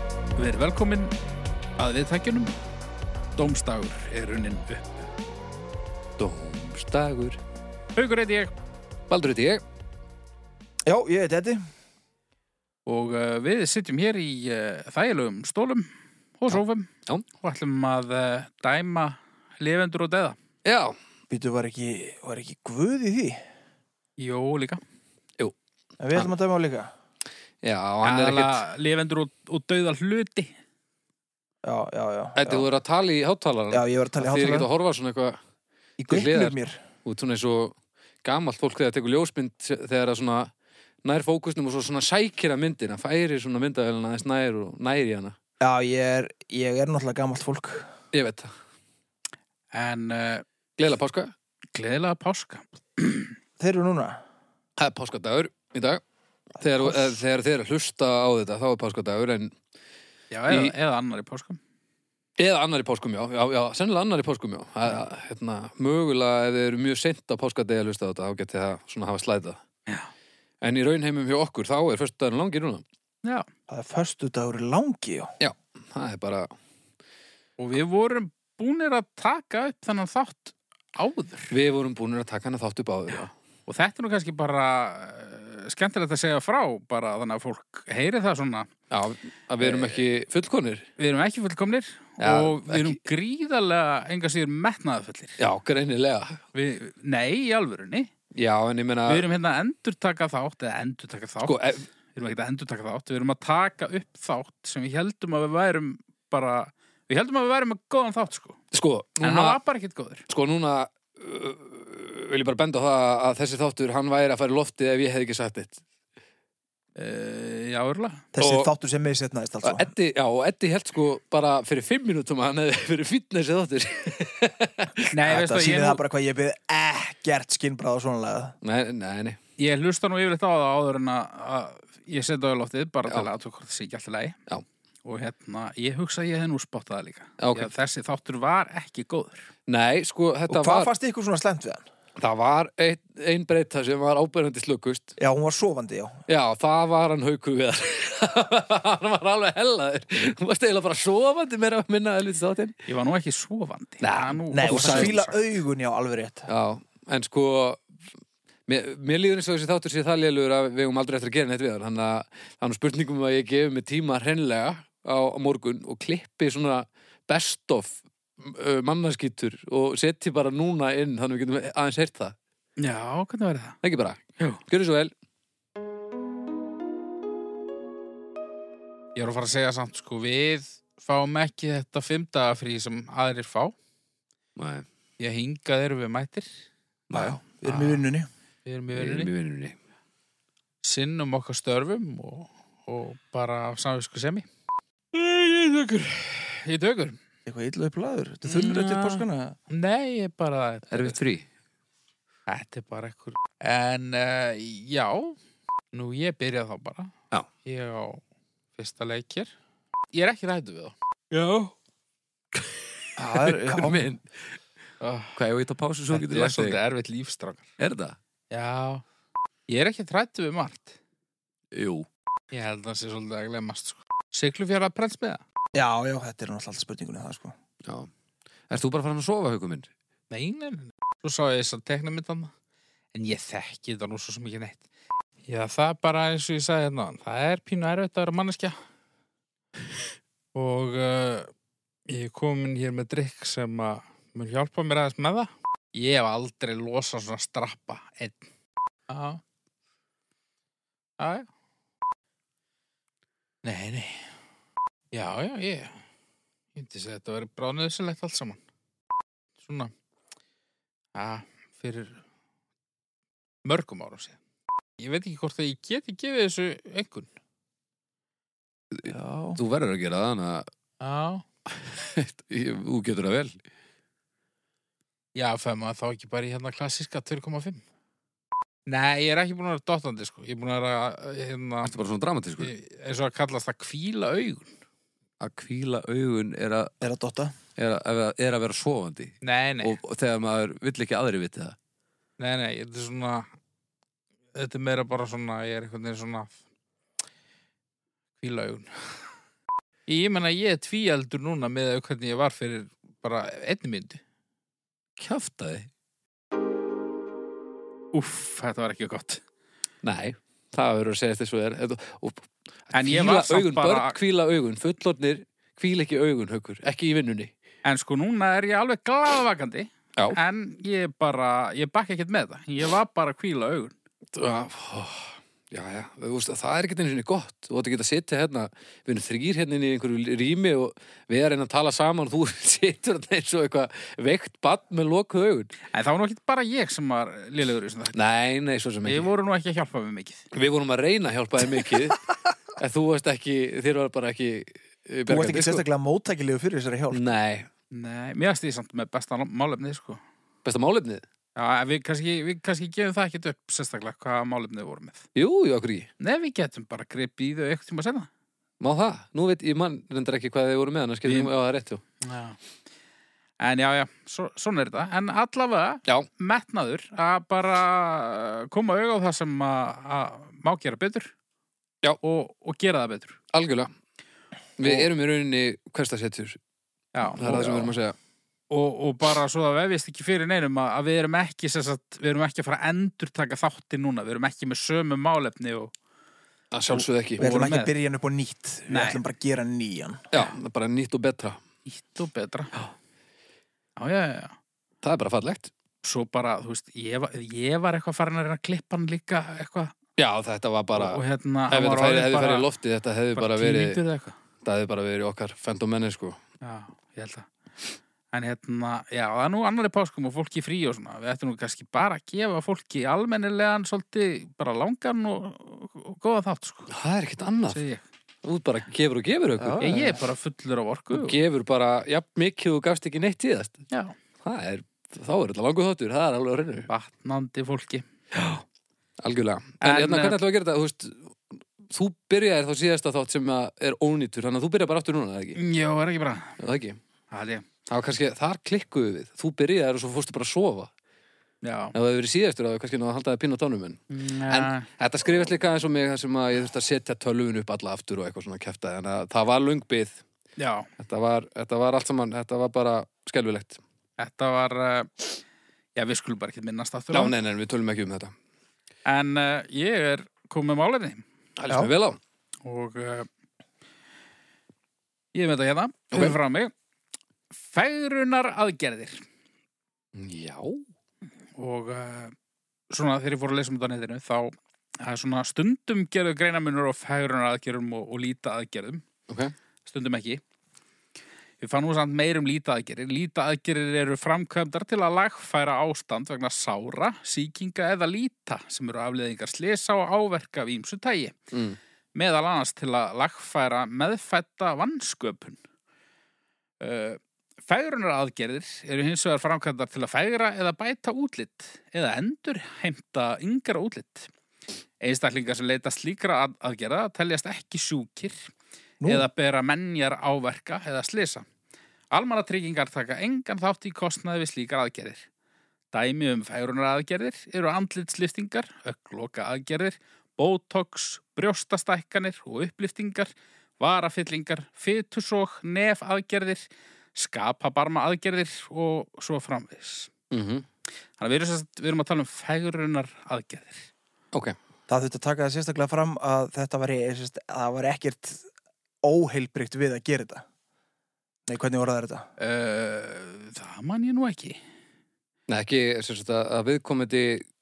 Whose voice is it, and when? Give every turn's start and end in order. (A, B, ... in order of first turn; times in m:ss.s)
0:00.4-0:01.1 A
0:01.8-0:02.5 A
0:03.4-0:04.9 A
0:06.2-0:07.4 B
0:07.9-0:08.5 A
0:09.1-0:09.6 B
0:10.8-0:11.6 C
0:12.8-0:16.9 A
0:16.5-0:17.2 B
0:17.4-0:20.4 A
0:20.6-0:21.0 B
0:21.3-0:23.4 C
0:24.2-0:24.8 A
0:26.0-0:26.9 C
0:27.6-0:28.6 B
0:28.0-0:30.5 A
0:31.6-0:32.7 C
0:32.4-0:35.4 B
0:33.7-0:34.7 C
0:36.0-0:36.8 C
0:36.1-0:40.5 B
0:41.0-0:45.4 B
0:45.6-0:47.9 C
0:48.1-0:48.5 B
0:49.7-0:50.4 A
0:50.8-0:51.3 B
0:51.7-0:53.4 A
0:53.6-0:54.2 C
0:54.8-0:56.0 B
0:56.6-0:59.6 B
0:56.8-0:57.2 C
1:00.3-1:01.6 A
1:00.5-1:00.7 B
1:02.4-1:09.6 B
1:10.6-1:12.8 B
1:13.7-1:15.3 C
1:15.4-1:16.5 B
1:17.6-1:21.5 A
1:21.5-1:23.3 B
1:23.1-1:28.7 A
1:28.9-1:30.9 B
1:29.6-1:30.0 A
1:31.0-1:35.4 A
1:32.2-1:33.0 B
1:35.4-1:36.4 B
1:36.5-1:38.1 A
1:38.3-1:39.2 B
1:39.0-1:41.6 A
1:41.4-1:41.8 B
1:42.1-1:48.6 A
1:48.7-1:49.6 B
1:49.2-1:50.2 A
1:50.3-1:55.8 B
1:57.0-1:58.3 A
1:58.3-1:59.9 C
1:58.4-1:58.7 B
1:59.6-2:05.1 B
2:05.1-2:06.0 A
2:05.3-2:08.6 C
2:08.6-2:09.4 B
2:09.6-2:14.4 A
2:15.0-2:19.5 A
2:17.4-2:17.7 B
2:19.7-2:20.9 B
2:20.5-2:21.8 C
2:22.2-2:25.1 B
2:25.2-2:26.2 C
2:26.3-2:32.8 B
2:32.8-2:35.3 A
2:34.0-2:35.3 B
2:34.5-2:36.5 C
2:36.5-2:37.8 B
2:38.7-2:52.4 B
2:52.8-2:53.8 A
2:53.8-2:55.1 B
2:59.2-3:03.7 A
3:04.6-3:04.9 B
3:05.2-3:06.5 A
3:07.1-3:08.3 C
3:07.1-3:08.1 A
3:08.6-3:09.3 A
3:08.9-3:09.8 B
3:10.8-3:14.4 A
3:15.1-3:17.2 A
3:17.4-3:19.6 C
3:18.4-3:19.2 A
3:19.7-3:21.2 A
3:20.9-3:21.4 B
3:22.5-3:25.4 A
3:25.9-3:28.2 A
3:28.8-3:29.5 A
3:30.1-3:31.7 A
3:32.5-3:34.4 B
3:33.2-3:34.0 C
3:35.0-3:35.4 A
3:35.3-3:36.8 B
3:36.1-3:37.7 A
3:37.8-3:38.2 B
3:38.5-3:39.0 A
3:39.7-3:41.0 A
3:41.7-3:42.1 B
3:42.5-3:45.4 A
3:45.7-3:47.5 C
3:47.8-3:48.1 B
3:48.7-3:49.9 B
3:50.3-3:52.5 A
3:53.1-3:54.8 A
3:55.4-3:58.8 A
4:00.5-4:01.5 A
4:02.1-4:08.5 A
4:09.1-4:09.4 A
4:11.2-4:11.5 A
4:13.6-4:14.3 A
4:15.1-4:16.0 A
4:16.7-4:18.6 A
4:19.6-4:19.9 A
4:21.1-4:22.2 A
4:23.6-4:24.4 A
4:25.0-4:27.3 A
4:28.9-4:30.7 B
4:29.1-4:29.6 C
4:31.0-4:31.4 A
4:31.7-4:33.6 B
4:35.3-4:37.8 A
4:38.9-4:42.0 A
4:41.8-4:42.7 B
4:42.6-4:44.7 A
4:45.4-4:46.9 B
4:47.0-4:47.6 C
4:47.8-4:51.8 B
4:49.4-4:50.0 A
4:52.4-4:53.5 A
4:54.5-4:56.6 A
4:58.4-4:59.2 A
5:00.1-5:04.2 A
5:05.2-5:05.9 B
5:08.1-5:09.4 A
5:10.0-5:17.5 B
5:12.9-5:14.2 A
5:17.8-5:23.9 A
5:24.3-5:35.7 B
5:35.9-5:38.2 A
5:38.1-5:39.3 B
5:39.0-5:40.4 A
5:40.5-5:42.2 B
5:42.8-5:45.8 B
5:45.3-5:47.3 C
5:47.1-5:47.7 B
5:47.9-5:50.2 A
5:50.6-5:51.2 B
5:51.6-5:55.2 A
5:55.3-5:56.1 B
5:56.2-5:58.3 A
5:58.8-6:02.0 B
6:01.2-6:01.5 A
6:02.2-6:02.6 A
6:03.6-6:11.3 A
6:12.2-6:13.4 A
6:13.5-6:13.9 B
6:14.8-6:16.6 B
6:17.1-6:17.9 A
6:17.2-6:18.2 B
6:18.7-6:25.9 A
6:26.7-6:27.4 B
6:27.4-6:27.9 A
6:27.4-6:30.2 C
6:28.9-6:29.2 A
6:30.3-6:31.6 B
6:31.8-6:32.8 A
6:34.0-6:34.6 A
6:35.0-6:35.7 B
6:36.0-6:39.9 A
6:40.2-6:44.0 B
6:40.9-6:42.7 A
6:43.3-6:44.4 A
6:44.6-6:46.4 B
6:46.6-6:47.5 A
6:48.3-6:56.9 A
6:56.9-6:57.8 B
6:57.7-6:58.0 A
6:58.4-7:00.2 B
6:59.6-7:00.1 C
6:59.8-7:01.4 A
7:01.1-7:03.8 B
7:04.4-7:06.9 B
7:06.9-7:08.0 A
7:08.3-7:08.6 B
7:09.2-7:15.6 B
7:09.8-7:10.4 A
7:15.6-7:16.6 A
7:16.6-7:17.0 B
7:17.3-7:17.6 A
7:17.9-7:20.9 B
7:21.6-7:21.9 A
7:21.9-7:30.2 B
7:24.1-7:24.9 A
7:30.6-7:30.9 A
7:31.0-7:33.8 B
7:34.2-7:35.3 A
7:35.9-7:37.3 A
7:37.1-7:38.3 B
7:39.0-7:41.2 A
7:41.6-7:42.2 B
7:42.6-7:43.3 A
7:45.3-7:46.7 A
7:46.1-7:46.4 B
7:47.7-7:49.2 A
7:50.1-7:50.8 B
7:51.6-7:52.3 A
7:52.9-7:59.0 A
7:59.3-7:59.5 B
7:59.8-8:00.4 A
8:01.6-8:11.4 A
8:11.5-8:11.8 B
8:12.1-8:15.6 A
8:16.8-8:24.3 A
8:25.0-8:28.5 A
8:29.0-8:29.3 C
8:29.0-8:31.4 A
8:32.1-8:35.3 A
8:35.9-8:46.6 A
8:47.1-8:50.1 A
8:50.3-8:50.6 B
8:51.2-8:53.9 A
8:54.9-8:58.4 C
8:59.0-9:00.4 C
9:01.5-9:02.3 C
9:02.4-9:04.6 A
9:05.5-9:07.5 B